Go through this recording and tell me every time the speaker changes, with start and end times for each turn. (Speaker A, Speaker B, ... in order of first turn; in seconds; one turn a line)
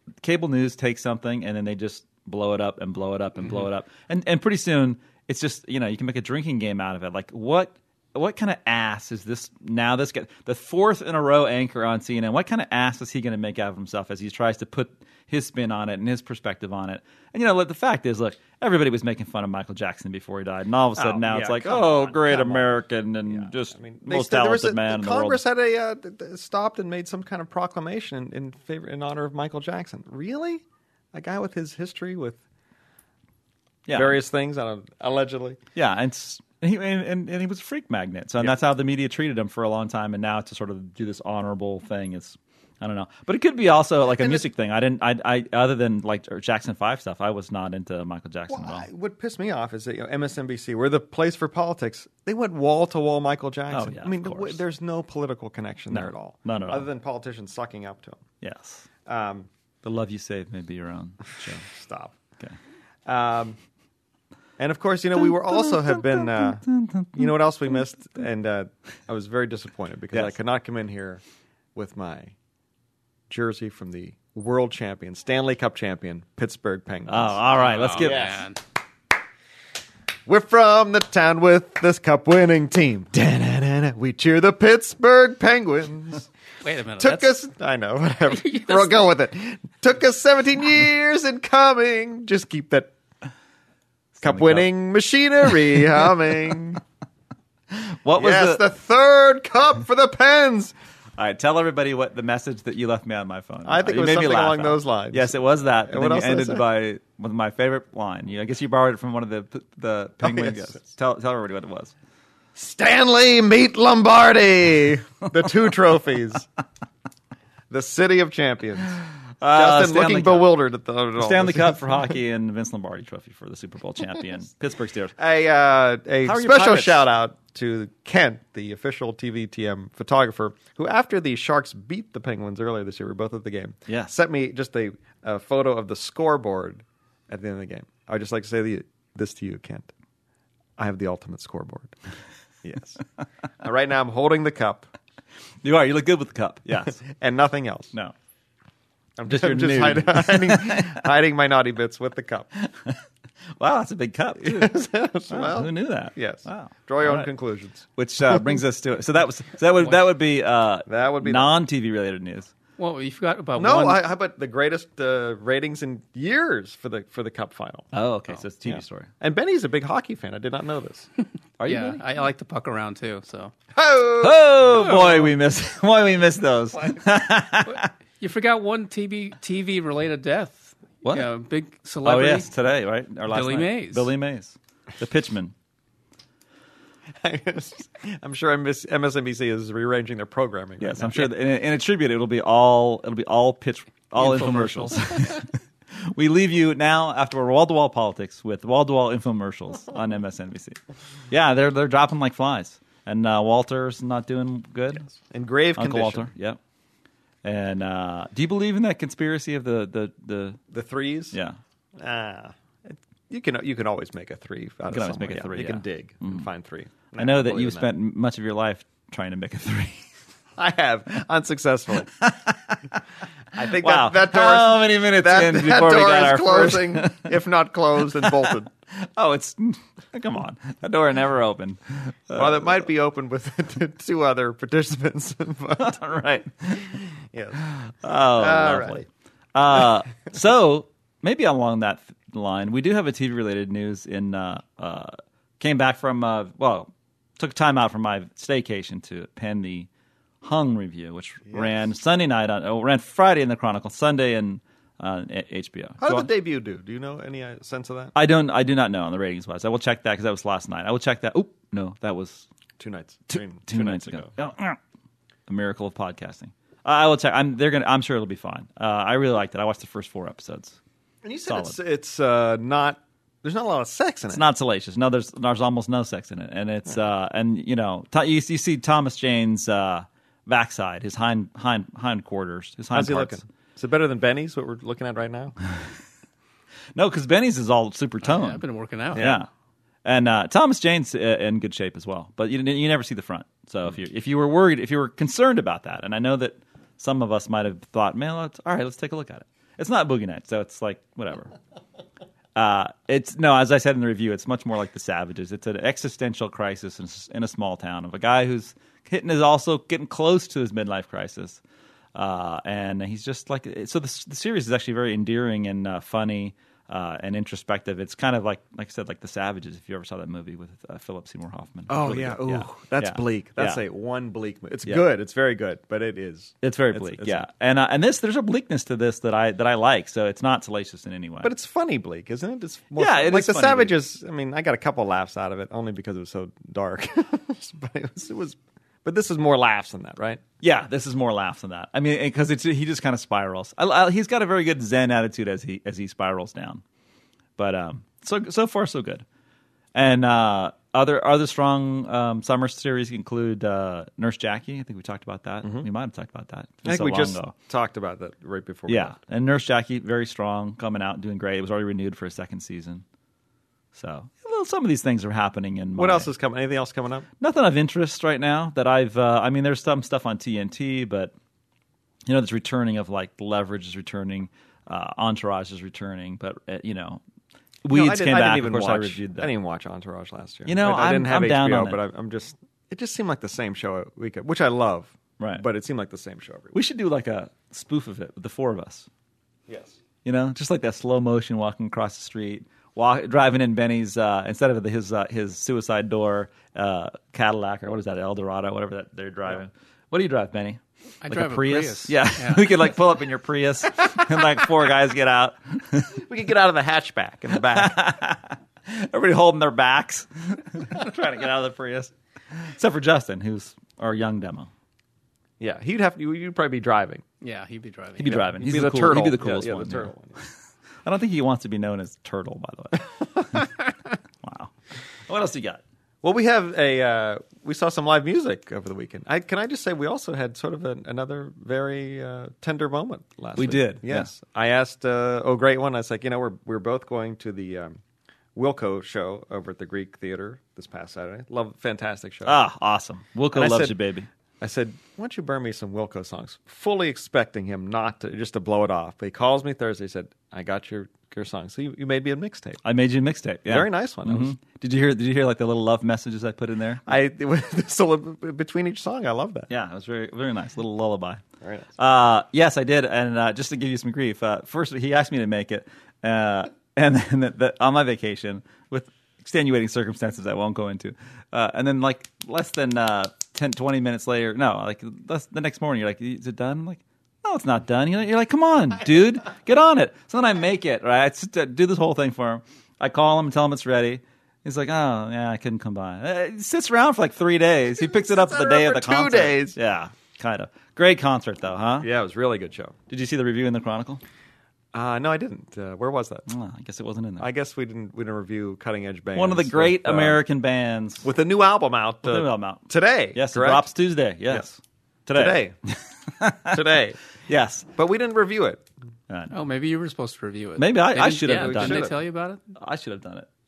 Speaker A: 0.2-25.4
Speaker B: 21.0-32.4
Speaker A: 33.9-34.2
Speaker B: 33.9-35.6
Speaker A: 35.8-48.9
Speaker B: 44.1-44.5
Speaker B: 48.5-58.2
Speaker A: 53.7-54.6
Speaker A: 55.9-56.9
Speaker A: 58.4-58.9
Speaker B: 59.1-59.5
Speaker A: 59.8-61.6
Speaker B: 61.4-62.2
Speaker B: 63.1-63.6
Speaker B: 64.6-71.2
Speaker A: 65.2-67.3
Speaker B: 71.8-72.3
Speaker B: 73.3-77.4
Speaker A: 77.1-78.4
Speaker C: 77.6-78.6
Speaker B: 78.0-78.5
Speaker B: 80.3-86.3
Speaker C: 86.6-87.3
Speaker B: 87.0-92.9
Speaker C: 88.3-89.0
Speaker A: 94.2-94.7
Speaker B: 94.2-96.8
Speaker A: 97.7-98.6
Speaker B: 98.2-100.8
Speaker A: 101.2-111.9
Speaker B: 103.7-106.7
Speaker B: 110.2-110.8
Speaker B: 112.6-116.5
Speaker B: 117.7-122.1
Speaker A: 119.4-120.5
Speaker A: 121.2-125.1
Speaker B: 125.2-139.9
Speaker A: 126.2-127.0
Speaker A: 133.9-134.1
Speaker B: 140.8-142.0
Speaker B: 142.6-143.0
Speaker B: 143.6-144.9
Speaker A: 145.6-147.0
Speaker B: 146.9-147.9
Speaker B: 149.2-152.5
Speaker A: 149.3-151.0
Speaker A: 152.6-153.0
Speaker A: 153.6-157.3
Speaker B: 154.4-158.6
Speaker A: 157.9-162.5
Speaker B: 160.9-161.5
Speaker C: 162.8-164.0
Speaker B: 163.6-167.9
Speaker A: 167.9-169.1
Speaker B: 168.7-171.1
Speaker A: 171.6-172.0
Speaker C: 171.7-173.5
Speaker B: 173.7-174.6
Speaker A: 174.2-177.9
Speaker C: 178.2-182.5
Speaker A: 182.0-185.5
Speaker C: 183.3-184.1
Speaker B: 187.2-191.3
Speaker A: 190.8-195.5
Speaker C: 194.2-195.0
Speaker A: 196.0-200.8
Speaker A: 201.3-205.1
Speaker B: 205.2-206.3
Speaker A: 205.8-206.6
Speaker A: 207.4-210.6
Speaker B: 210.7-211.4
Speaker A: 211.3-211.6
Speaker B: 212.0-217.9
Speaker A: 214.9-216.5
Speaker A: 217.2-220.1
Speaker B: 220.6-222.1
Speaker A: 222.2-223.0
Speaker B: 223.5-228.7
Speaker A: 223.6-227.3
Speaker A: 228.2-232.8
Speaker B: 232.3-236.0
Speaker A: 235.8-237.0
Speaker B: 236.9-237.6
Speaker A: 237.6-249.9
Speaker B: 238.4-239.1
Speaker A: 250.4-256.3
Speaker B: 256.0-258.1
Speaker A: 258.1-262.5
Speaker B: 262.8-264.3
Speaker A: 263.3-264.8
Speaker A: 265.5-270.8
Speaker B: 271.2-274.4
Speaker A: 271.5-271.8
Speaker A: 274.3-283.4
Speaker B: 282.9-285.6
Speaker A: 286.9-288.6
Speaker C: 288.2-289.3
Speaker B: 289.1-289.4
Speaker A: 289.1-289.5
Speaker A: 290.1-301.5
Speaker A: 302.6-311.6
Speaker A: 312.1-323.8
Speaker B: 321.9-327.5
Speaker A: 326.6-331.5
Speaker B: 331.4-340.4
Speaker A: 333.0-333.9
Speaker A: 340.6-346.8
Speaker A: 347.6-349.2
Speaker A: 349.9-357.5
Speaker B: 356.9-359.2
Speaker A: 358.9-363.0
Speaker A: 363.9-366.3
Speaker B: 366.0-367.3
Speaker A: 367.4-371.3
Speaker A: 372.3-377.2
Speaker A: 377.8-379.5
Speaker B: 377.9-386.7
Speaker A: 380.7-382.0
Speaker A: 385.4-385.6
Speaker A: 386.7-389.1
Speaker B: 389.7-390.0
Speaker A: 390.2-406.2
Speaker C: 401.2-402.9
Speaker B: 406.1-408.0
Speaker A: 407.6-414.7
Speaker B: 415.6-417.2
Speaker C: 417.4-418.4
Speaker A: 418.2-420.1
Speaker B: 418.3-420.4
Speaker A: 421.1-423.7
Speaker A: 424.4-424.7
Speaker A: 425.3-425.8
Speaker B: 426.2-438.0
Speaker A: 433.6-434.3
Speaker B: 438.6-442.6
Speaker A: 442.4-444.3
Speaker B: 443.5-444.0
Speaker B: 444.6-452.8
Speaker A: 452.8-457.0
Speaker B: 453.7-454.5
Speaker B: 457.1-459.7
Speaker A: 459.7-461.4
Speaker B: 461.6-461.9
Speaker A: 462.0-492.1
Speaker B: 487.9-489.8
Speaker B: 492.0-492.9
Speaker A: 493.1-494.2
Speaker B: 494.9-496.5
Speaker A: 496.5-497.5
Speaker B: 497.4-500.4
Speaker A: 499.4-501.3
Speaker B: 501.2-503.9
Speaker A: 502.2-506.8
Speaker B: 505.3-505.8
Speaker B: 506.7-507.2
Speaker A: 507.5-507.9
Speaker B: 507.9-508.8
Speaker A: 509.3-509.5
Speaker C: 509.5-512.6
Speaker A: 510.8-512.1
Speaker B: 511.5-512.2
Speaker A: 512.8-513.5